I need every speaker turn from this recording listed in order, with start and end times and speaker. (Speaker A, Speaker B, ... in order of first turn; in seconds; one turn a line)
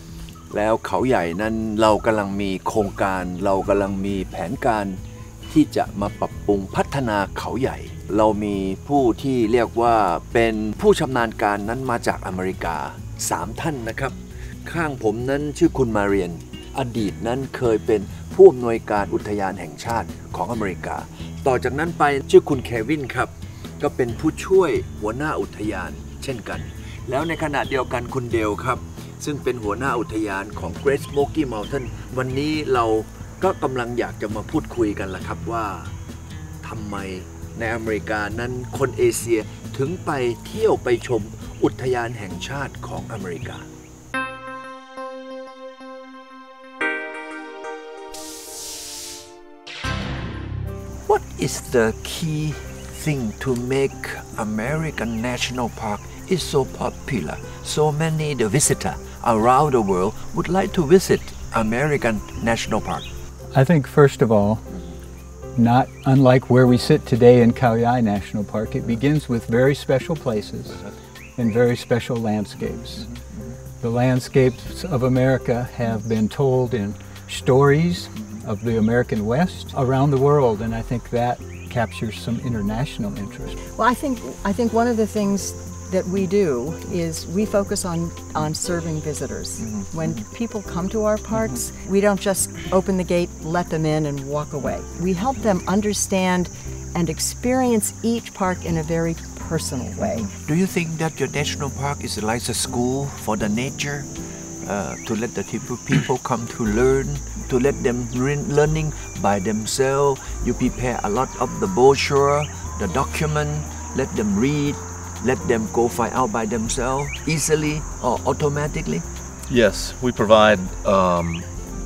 Speaker A: 0.5-5.0
Speaker A: 5.5-35.9
Speaker A: 36.6-43.7
Speaker A: 51.1-63.1
Speaker B: 63.5-64.7
Speaker B: 65.5-70.8
Speaker B: 71.4-73.1
Speaker A: 73.1-73.4
Speaker B: 73.8-83.6
Speaker C: 83.7-100.3
Speaker A: 89.7-90.2
Speaker A: 100.2-104.1
Speaker A: 104.6-119.1
Speaker D: 119.5-121.5